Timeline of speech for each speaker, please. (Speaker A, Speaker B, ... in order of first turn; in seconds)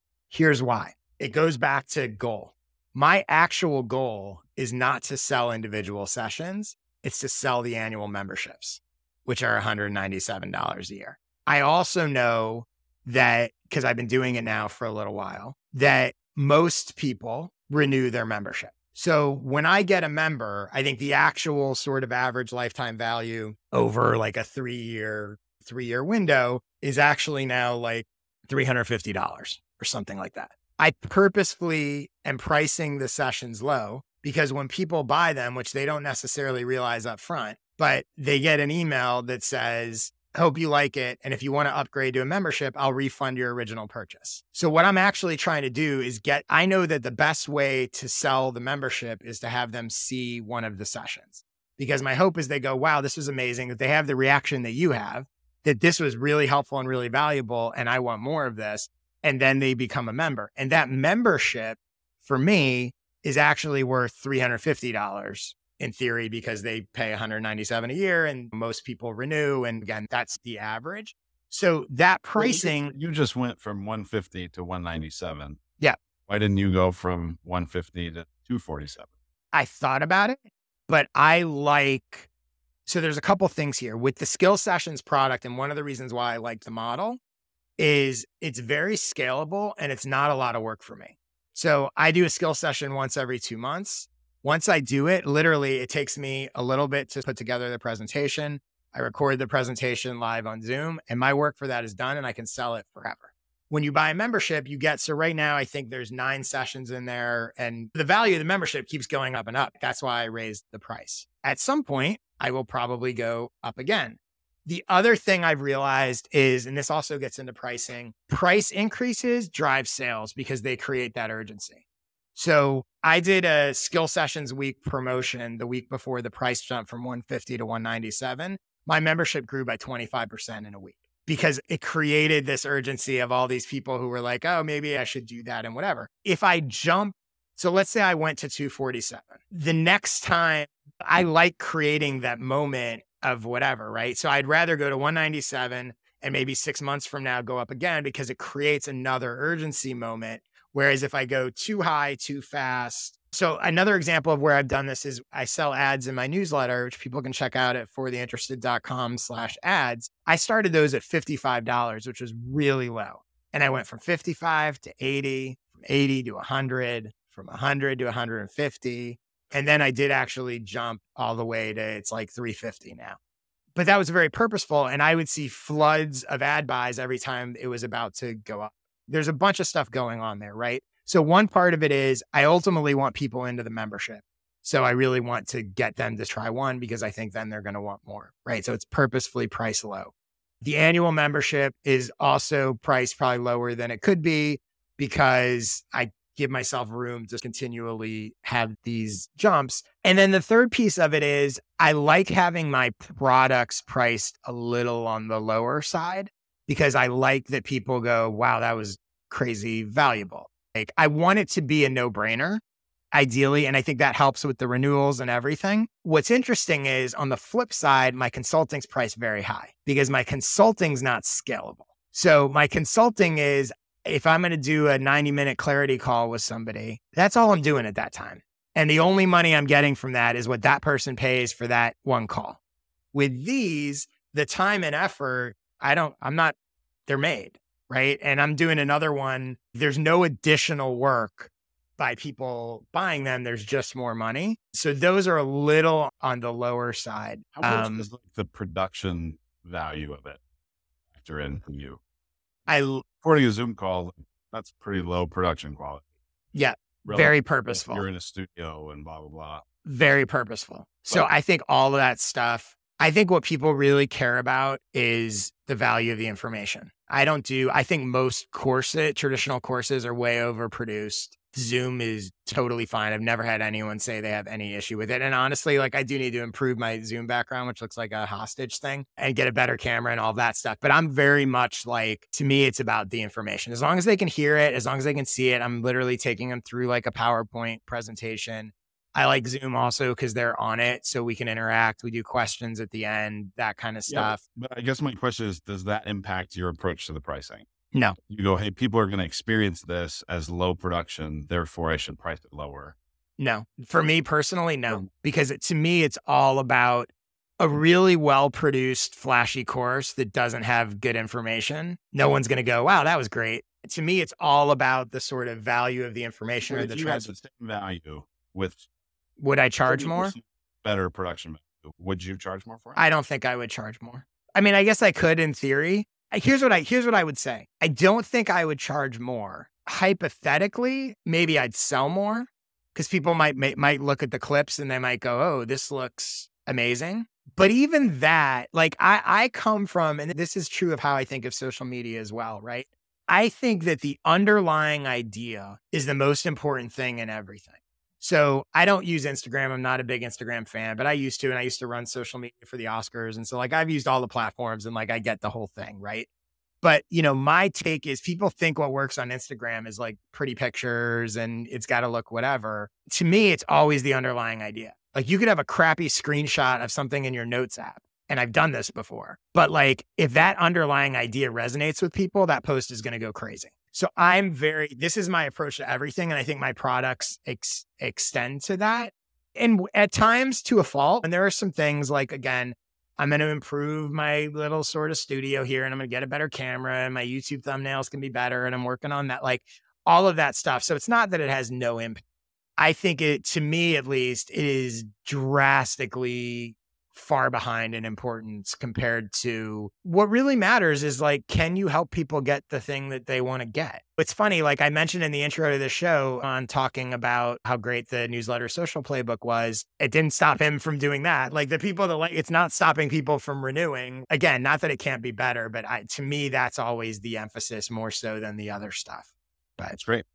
Speaker A: 0.3-72.9, 79.5-82.3, 82.8-87.2, 87.8-121.8, 122.3-173.2, 173.7-212.6, 213.1-232.6, 233.1-236.5, 237.1-248.1, 252.7-253.0, 256.5-258.0, 259.8-294.4, 297.9-298.2, 303.4-317.3, 319.4-320.3, 323.0-356.3, 356.8-392.2, 392.8-420.0
Speaker B: 72.4-75.6, 76.3-79.1, 247.5-250.4, 251.1-252.0, 253.2-256.0, 257.0-259.6, 294.1-297.7, 298.3-302.9, 316.6-318.8, 319.9-323.0, 419.9-420.2